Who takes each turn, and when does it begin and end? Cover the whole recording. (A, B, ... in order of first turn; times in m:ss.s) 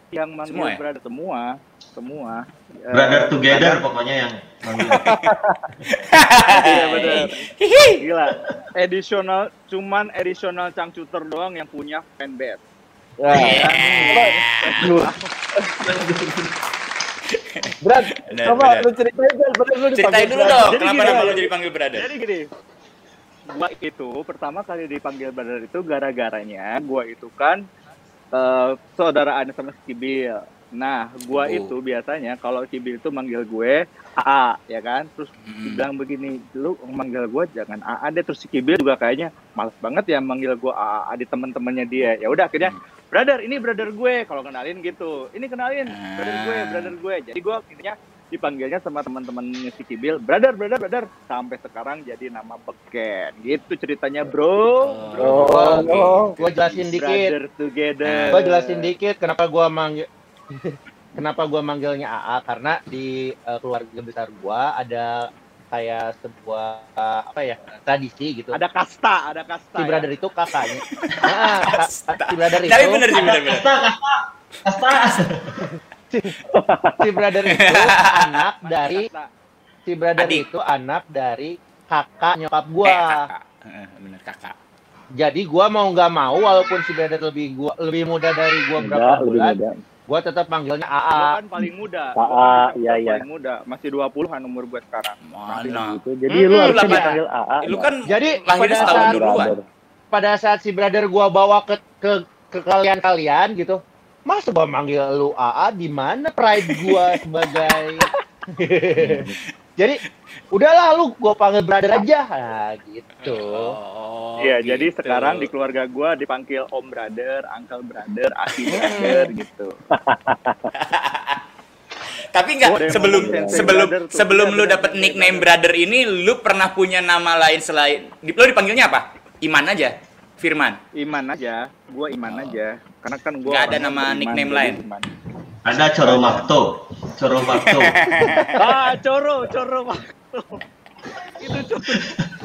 0:00.1-0:03.8 A
0:00.4-0:00.8 B
0:02.9-0:05.1 C
0:04.9-0:05.6 D
0:04.9-0:05.3 B
0:05.9-0:08.0 B
0:06.4-0:07.4 A
0:08.0-0:12.6 A
0:13.2-0:15.1 D
0:13.3-0:15.0 B
0:13.4-0:15.2 A
0:15.8-0:16.5 C
0:17.3-0:17.7 B
0:17.8-0:20.8 D
0:18.3-0:18.8 B
0:20.0-0:22.0 B
0:20.6-0:22.5 A
0:23.5-0:27.6 A
0:28.3-0:58.9 A
0:31.3-0:31.7 B
0:35.4-0:35.8 B
0:45.9-0:46.9 B
0:54.8-0:56.3 B
0:55.2-0:56.3 D
0:56.4-0:57.3 E
0:58.0-0:58.4 B
0:58.3-1:08.6 E
1:08.5-1:10.1 A
1:09.8-1:13.1 E
1:10.8-1:13.7 B
1:13.1-1:15.6 C
1:14.9-1:15.2 B
1:16.5-1:17.1 F
1:17.0-1:19.1 E
1:17.5-1:18.4 B
1:18.6-1:19.3 A
1:19.9-1:23.3 E
1:20.2-1:20.4 B
1:22.8-1:24.5 B
1:25.2-1:29.6 E
1:28.8-1:29.8 F
1:30.1-1:31.4 E
1:31.1-1:35.7 A
1:32.2-1:33.2 F
1:35.2-1:36.0 B
1:35.6-1:37.9 F
1:36.3-1:37.2 E
1:36.5-1:39.5 B
1:38.1-1:39.3 E
1:38.8-1:39.6 F
1:40.1-1:49.3 E
1:50.5-1:53.7 E
1:53.2-1:55.5 B
1:54.4-1:59.7 A
1:58.7-1:59.2 E
1:59.9-2:00.7 F
2:00.7-2:01.4 B
2:02.3-2:10.8 B
2:02.6-2:05.5 A
2:02.9-2:03.8 F
2:11.0-2:15.1 A
2:12.2-2:12.6 B
2:13.4-2:14.8 B
2:15.6-2:18.2 C
2:17.5-2:18.6 B
2:18.5-2:20.6 A
2:21.4-2:22.0 A
2:22.0-2:22.3 C